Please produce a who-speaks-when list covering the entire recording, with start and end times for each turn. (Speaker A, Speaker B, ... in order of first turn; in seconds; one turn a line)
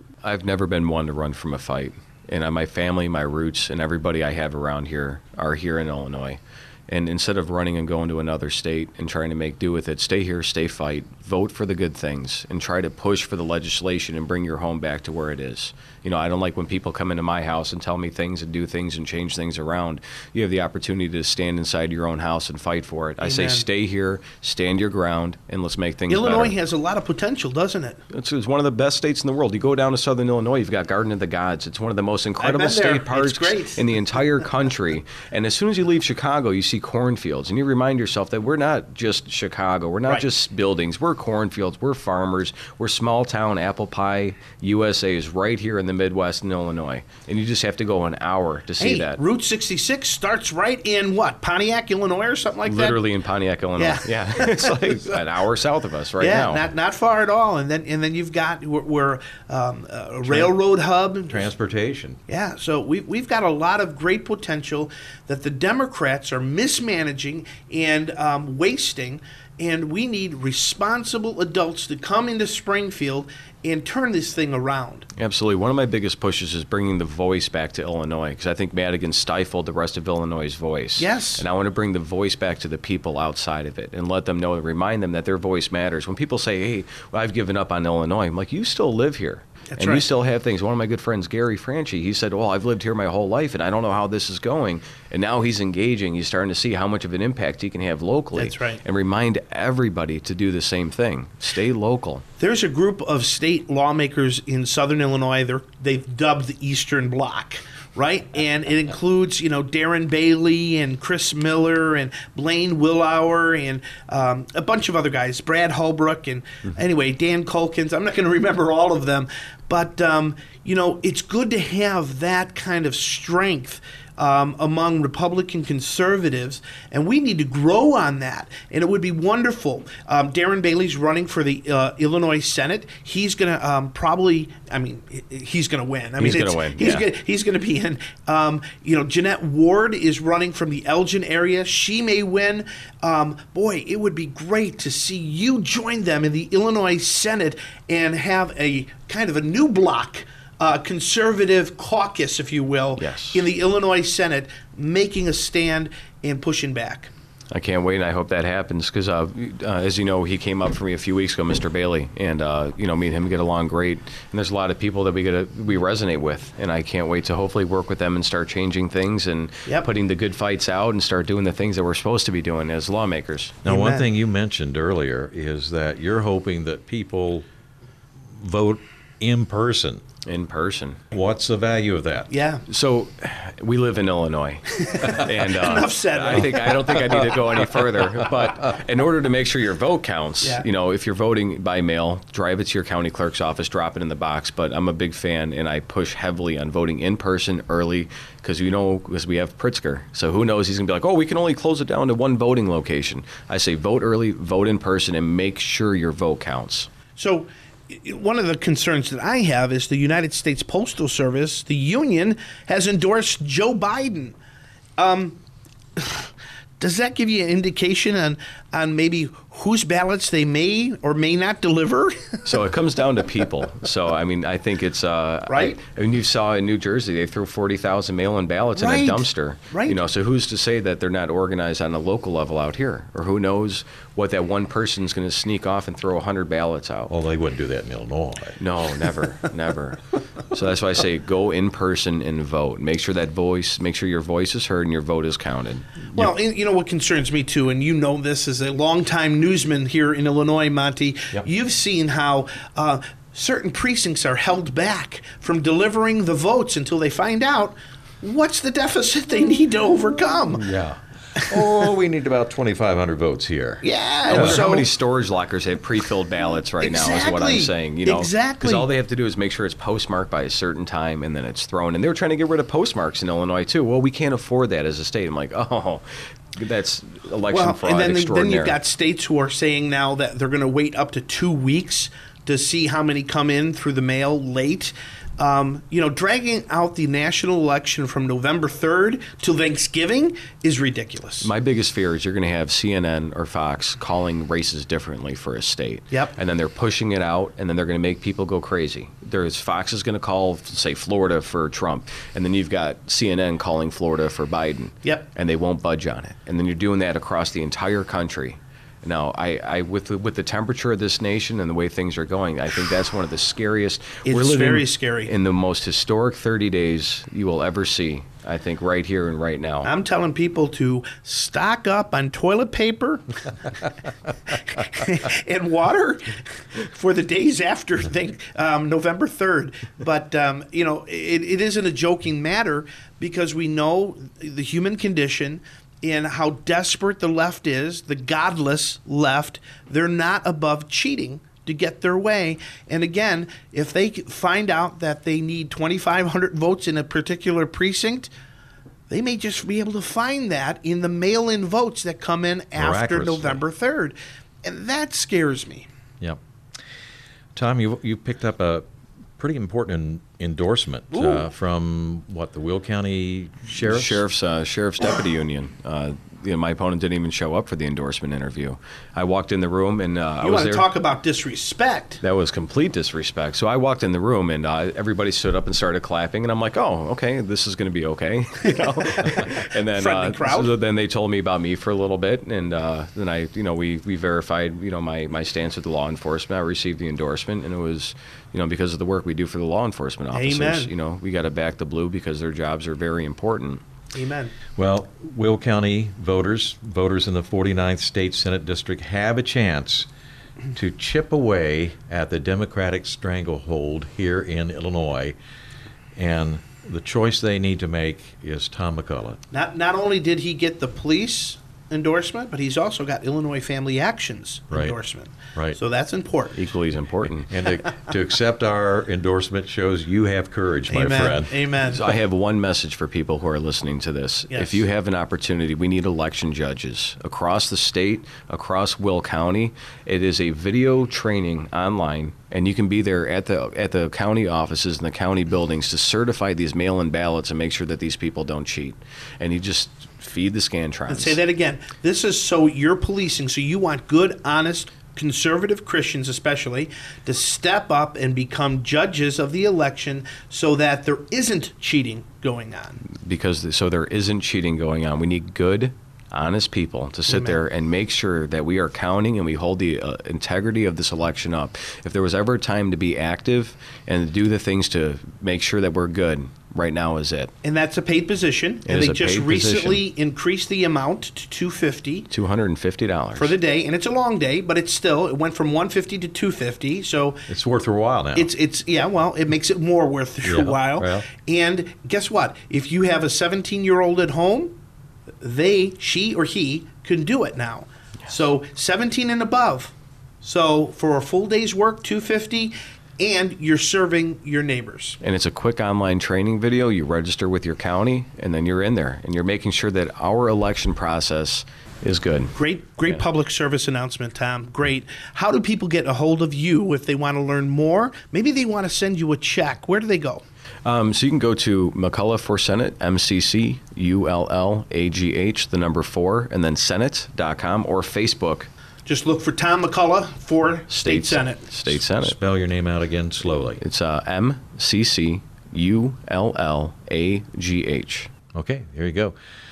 Speaker A: 0.2-26.5
Speaker B: 23.2-23.6
Speaker B: 26.1-28.0
Speaker A: 28.1-49.2
Speaker B: 32.4-33.8
Speaker B: 48.8-53.0
Speaker A: 52.7-56.7
Speaker B: 53.8-55.2
Speaker B: 56.2-61.5
Speaker C: 61.3-62.2
Speaker B: 62.3-75.1
Speaker A: 75.2-102.2
Speaker B: 81.0-81.4
Speaker B: 89.7-90.0
Speaker B: 98.4-98.8
Speaker B: 102.4-157.1
Speaker A: 136.2-137.1
Speaker A: 153.0-153.4
Speaker A: 157.5-173.6
Speaker C: 173.6-177.5
Speaker B: 173.7-174.1
Speaker C: 178.4-180.0
Speaker A: 180.2-181.0
Speaker C: 181.1-182.3
Speaker B: 182.3-182.7
Speaker A: 182.7-206.9
Speaker B: 184.8-187.3
Speaker B: 207.2-214.4
Speaker B: 215.0-215.4
Speaker B: 216.0-222.4
Speaker A: 222.4-237.1
Speaker B: 225.5-225.8
Speaker B: 228.8-230.0
Speaker C: 237.1-238.6
Speaker A: 238.6-246.3
Speaker B: 246.2-260.7
Speaker C: 260.5-264.6
Speaker B: 261.4-261.6
Speaker B: 263.8-264.9
Speaker A: 264.3-278.8
Speaker B: 266.8-268.9
Speaker B: 277.5-291.5
Speaker A: 291.4-319.9
Speaker B: 314.3-315.3
Speaker B: 319.8-323.4
Speaker B: 324.7-348.3
Speaker B: 349.1-355.9
Speaker C: 352.8-353.6
Speaker C: 357.6-358.9
Speaker C: 359.4-364.2
Speaker B: 361.1-361.5
Speaker A: 363.7-370.9
Speaker B: 370.4-372.2
Speaker A: 372.2-393.8
Speaker B: 379.4-380.7
Speaker B: 390.3-390.9
Speaker B: 394.1-394.5
Speaker C: 394.8-400.1
Speaker C: 400.7-405.4
Speaker C: 406.2-409.4
Speaker B: 409.5-416.6
Speaker C: 414.7-415.0
Speaker A: 416.6-417.5
Speaker C: 417.5-421.6
Speaker B: 420.9-422.0
Speaker A: 421.8-441.4
Speaker B: 424.5-424.8
Speaker B: 441.1-453.0
Speaker A: 453.1-467.5
Speaker B: 457.3-457.6
Speaker B: 467.6-472.3
Speaker A: 468.9-470.0
Speaker A: 472.3-473.5
Speaker B: 473.4-477.4
Speaker C: 477.5-478.5
Speaker B: 478.4-484.8
Speaker C: 480.4-481.3
Speaker B: 485.4-495.2
Speaker A: 495.2-502.5
Speaker B: 502.6-510.4
Speaker A: 510.9-518.7
Speaker B: 519.1-521.6
Speaker A: 520.9-522.4
Speaker C: 521.9-523.8
Speaker A: 523.8-528.3
Speaker C: 528.5-529.4